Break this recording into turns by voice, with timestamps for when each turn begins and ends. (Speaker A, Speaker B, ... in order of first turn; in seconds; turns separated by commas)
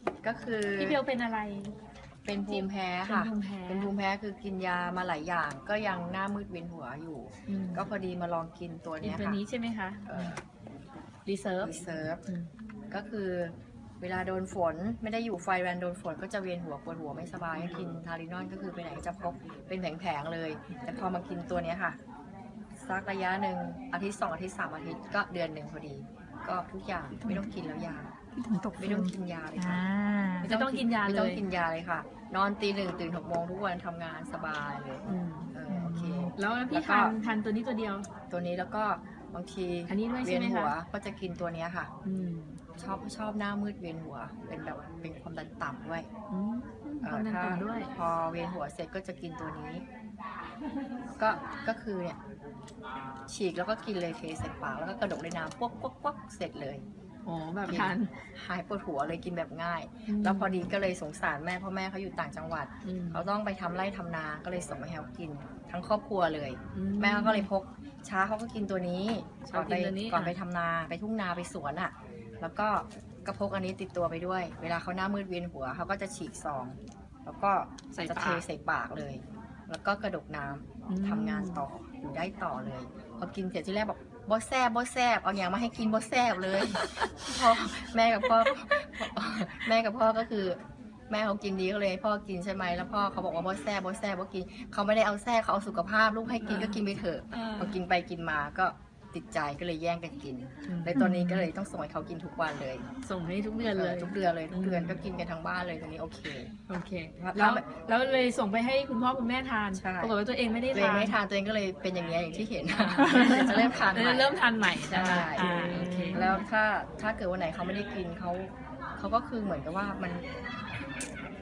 Speaker A: 0.2-1.0, Speaker B: 0.8-1.8, Speaker A: 2.2-9.4, Speaker B: 2.5-3.9, Speaker B: 7.5-7.9, Speaker B: 9.0-10.4, Speaker A: 10.1-10.4, Speaker B: 11.3-12.5, Speaker A: 11.6-12.2, Speaker A: 12.9-22.0, Speaker A: 22.8-28.1, Speaker C: 27.2-27.5, Speaker C: 28.4-30.5, Speaker A: 28.8-29.9, Speaker A: 30.4-37.2, Speaker B: 30.4-31.4, Speaker B: 35.1-35.5, Speaker C: 35.7-36.3, Speaker B: 36.4-38.1, Speaker A: 38.3-41.9, Speaker B: 39.9-40.8, Speaker B: 42.0-42.6, Speaker A: 42.8-46.1, Speaker B: 46.3-47.9, Speaker A: 47.0-49.9, Speaker A: 51.2-52.2, Speaker A: 53.3-56.8, Speaker B: 57.3-58.1, Speaker A: 57.7-90.6, Speaker B: 60.1-60.6, Speaker B: 62.9-63.3, Speaker B: 66.7-67.5, Speaker B: 69.5-70.4, Speaker B: 77.9-78.4, Speaker B: 80.9-81.7, Speaker A: 91.1-102.9, Speaker B: 96.4-96.8, Speaker B: 97.3-97.8, Speaker B: 100.7-101.0, Speaker C: 101.0-101.3, Speaker B: 103.0-105.1, Speaker A: 103.7-106.5, Speaker B: 106.7-111.2, Speaker A: 107.2-107.7, Speaker A: 109.7-110.2, Speaker A: 110.7-114.4, Speaker B: 112.7-116.3, Speaker C: 113.1-113.6, Speaker A: 114.9-120.2, Speaker C: 115.4-116.4